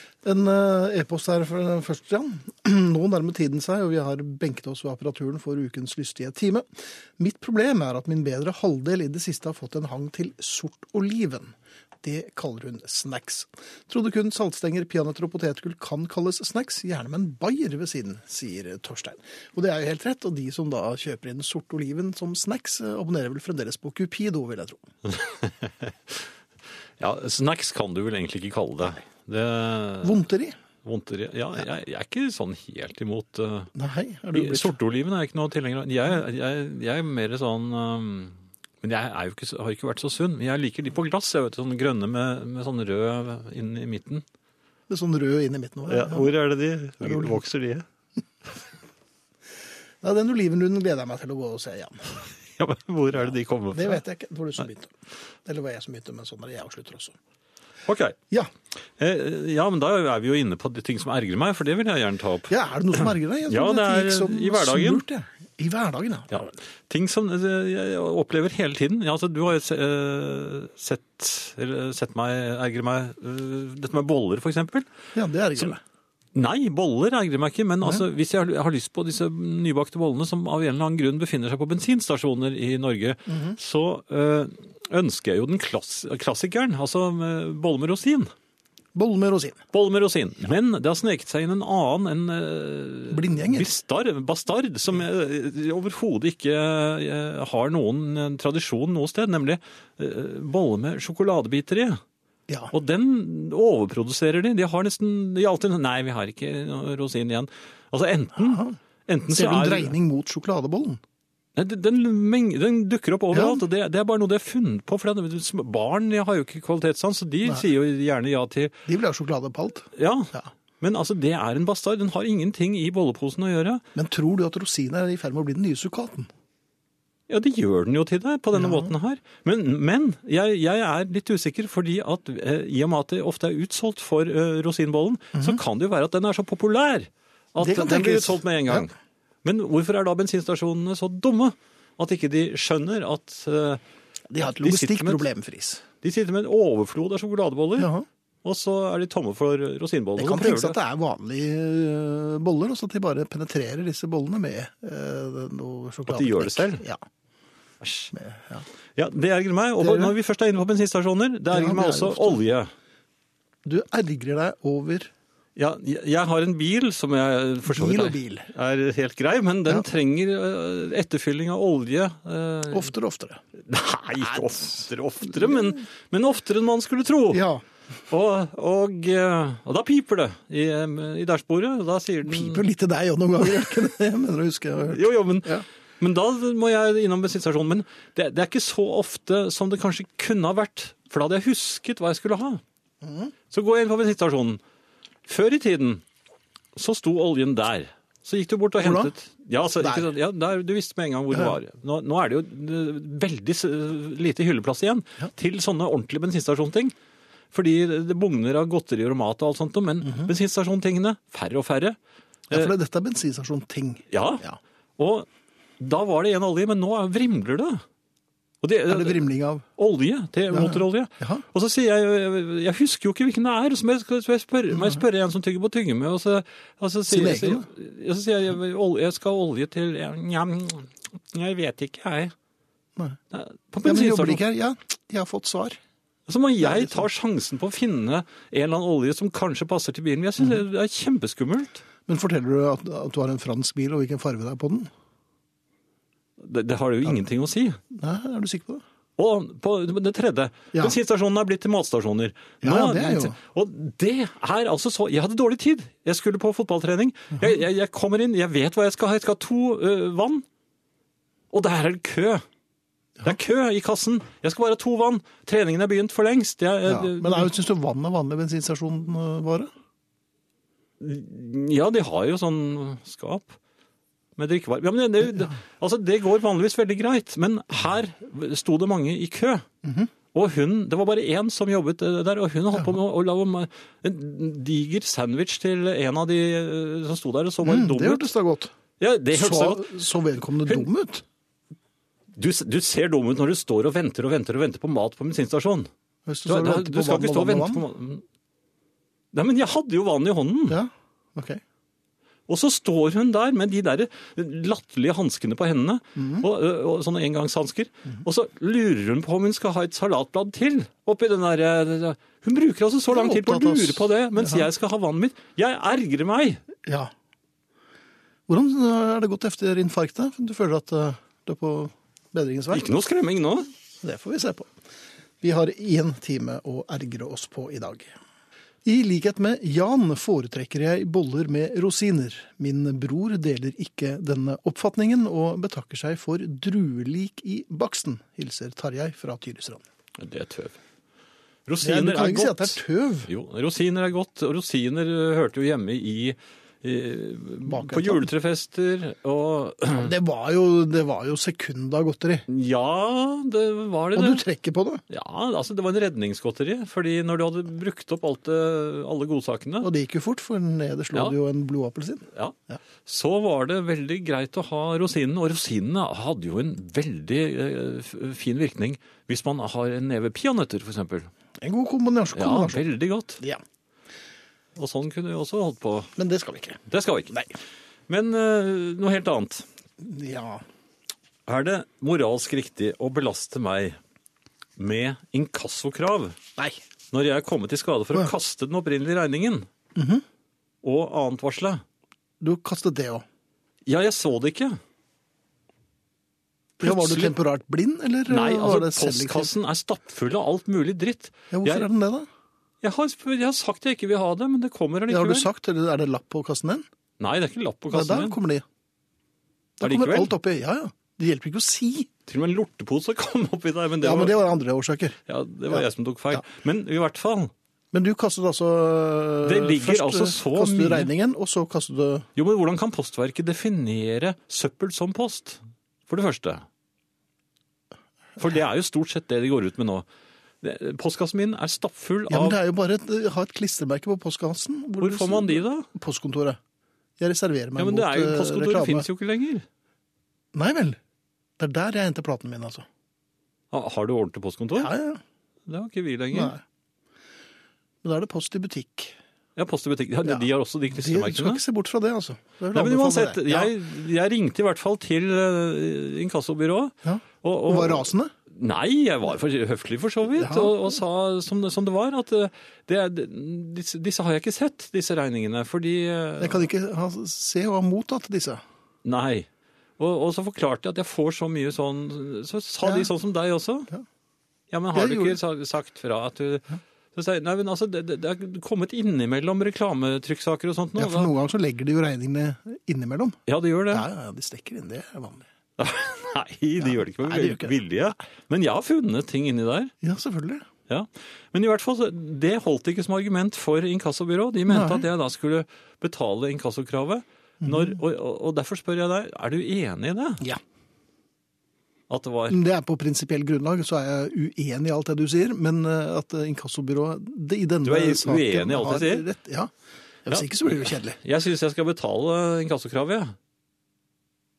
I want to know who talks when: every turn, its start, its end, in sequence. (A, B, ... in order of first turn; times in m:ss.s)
0:00.2-0:06.6 A
0:07.2-0:24.8 A
0:25.1-0:26.2 B
0:27.0-0:30.2 B
0:30.0-0:30.6 A
0:30.8-0:33.7 B
0:33.7-0:34.8 A
0:34.3-0:44.2 B
0:44.9-0:46.3 A
0:45.9-0:47.8 B
0:47.0-0:47.4 A
0:50.0-0:52.1 A
0:52.6-0:54.0 B
0:53.7-0:54.9 A
0:55.4-0:57.1 A
0:57.9-0:58.2 B
0:59.0-1:05.0 B
1:02.5-1:06.5 A
1:06.3-1:14.9 B
1:15.1-1:15.8 A
1:16.3-1:28.3 B
1:23.3-1:23.6 A
1:28.9-1:29.6 A
1:29.7-1:42.0 B
1:33.1-1:33.7 A
1:42.7-1:49.9 B
1:48.4-1:48.7 A
1:49.3-1:51.0 A
1:51.6-1:58.7 B
1:53.3-1:53.6 A
1:58.8-2:00.5 A
1:59.9-2:03.8 B
2:03.9-2:06.3 A
2:07.3-2:18.9 B
2:08.5-2:08.9 A
2:15.3-2:15.6 A
2:17.6-2:18.8 A
2:19.4-2:23.8 B
2:24.3-2:25.8 A
2:24.4-2:25.2 B
2:26.0-2:27.9 B
2:27.8-2:28.0 A
2:28.4-2:30.8 B
2:30.2-2:37.0 A
2:36.1-2:36.8 B
2:37.8-2:38.1 B
2:38.1-2:38.6 A
2:39.0-2:42.7 B
2:39.8-2:40.1 A
2:41.5-2:42.4 A
2:43.6-2:45.1 A
2:45.6-2:52.9 B
2:47.7-2:48.5 A
2:52.7-2:53.4 A
2:53.6-2:57.4 B
2:54.2-2:55.7 A
2:57.3-2:57.6 A
2:58.1-3:02.6 B
3:02.2-3:05.6 A
3:04.9-3:12.6 B
3:13.0-3:13.3 A
3:13.5-3:14.6 B
3:15.2-3:16.0 B
3:16.8-3:26.9 B
3:18.8-3:19.1 A
3:19.8-3:20.1 A
3:27.5-3:32.0 B
3:32.5-3:34.6 A
3:34.1-3:34.4 B
3:35.0-3:35.3 B
3:35.8-3:37.8 B
3:38.6-3:39.2 B
3:38.9-3:39.6 A
3:39.8-3:52.3 B
3:40.5-3:41.4 A
3:47.1-3:47.7 A
3:53.3-3:54.4 B
3:53.8-3:55.8 A
3:56.3-4:01.8 B
3:56.6-3:57.0 A
4:02.1-4:04.9 A
4:06.4-4:07.8 B
4:07.9-4:08.8 A
4:09.2-4:20.4 B
4:12.6-4:13.4 A
4:21.5-4:22.4 B
4:23.2-4:27.5 B
4:26.8-4:29.7 A
4:31.0-4:33.6 B
4:34.4-4:39.6 B
4:39.8-4:40.1 A
4:40.3-4:48.3 B
4:47.6-4:48.7 A
4:49.0-4:49.9 B
4:49.3-4:51.2 A
4:52.3-4:55.9 B
4:56.3-4:57.8 A
4:56.4-4:58.2 B
4:59.3-5:00.8 B
5:00.7-5:01.6 A
5:02.5-5:16.6 B
5:06.2-5:06.4 A
5:13.1-5:14.7 A
5:16.8-5:17.1 A
5:18.5-5:22.9 A
5:22.7-5:23.7 B
5:24.0-5:24.7 A
5:25.4-5:28.1 A
5:28.8-5:39.8 A
5:40.2-5:40.8 B
5:41.7-5:50.1 B
5:41.8-5:43.3 A
5:47.6-5:48.3 A
5:50.0-5:52.4 A
5:52.5-5:54.4 B
5:54.1-5:55.0 A
5:55.1-5:59.9 B
5:59.8-6:02.8 A
6:02.3-6:11.3 B
6:11.6-6:12.8 A
6:12.3-6:13.4 B
6:14.8-6:16.1 B
6:16.2-6:17.5 A
6:16.9-6:17.3 B
6:18.1-6:19.6 B
6:20.0-6:20.6 A
6:21.5-6:24.0 B
6:24.8-6:26.4 B
6:27.1-6:29.7 B
6:29.9-6:30.2 A
6:30.8-6:31.8 B
6:32.4-6:33.2 A
6:33.8-6:34.8 B
6:36.8-6:39.5 A
6:36.8-6:37.3 B
6:38.3-6:41.9 B
6:41.5-6:42.3 A
6:42.8-6:45.5 B
6:45.1-6:46.8 A
6:47.2-6:48.4 B
6:47.9-6:48.6 A
6:49.8-6:52.1 A
6:49.8-6:50.3 B
6:52.3-6:54.4 B
6:54.0-6:55.2 A
6:55.3-6:57.5 B
6:55.7-6:56.4 A
6:57.9-7:02.3 A
6:59.4-7:01.1 B
7:02.4-7:06.6 B
7:08.4-7:10.0 B
7:10.6-7:12.6 B
7:12.3-7:16.6 A
7:15.0-7:15.9 B
7:17.2-7:19.1 A
7:17.8-7:19.6 B
7:20.5-7:21.0 A
7:21.6-7:22.8 A
7:23.7-7:24.9 B
7:24.8-7:25.2 A
7:25.7-7:26.5 B
7:26.3-7:26.6 A
7:28.0-7:29.2 A
7:29.6-7:31.6 B
7:30.2-7:33.7 A
7:32.7-7:46.7 B
7:37.0-7:38.3 A
7:40.4-7:41.0 A
7:46.4-7:48.6 A
7:49.0-7:49.5 B
7:50.0-7:53.9 B
7:52.8-7:53.1 A
7:54.7-8:01.3 B
7:54.9-7:55.4 A
8:01.0-8:03.4 A
8:03.5-8:04.1 B
8:03.9-8:05.4 A
8:05.8-8:09.9 B
8:06.8-8:07.7 A
8:10.0-8:10.6 A
8:10.9-8:20.4 B
8:14.7-8:15.0 A
8:17.6-8:18.0 A
8:22.1-8:22.6 B
8:22.5-8:29.7 A
8:27.8-8:29.3 B
8:30.2-8:31.2 A
8:30.3-8:33.3 B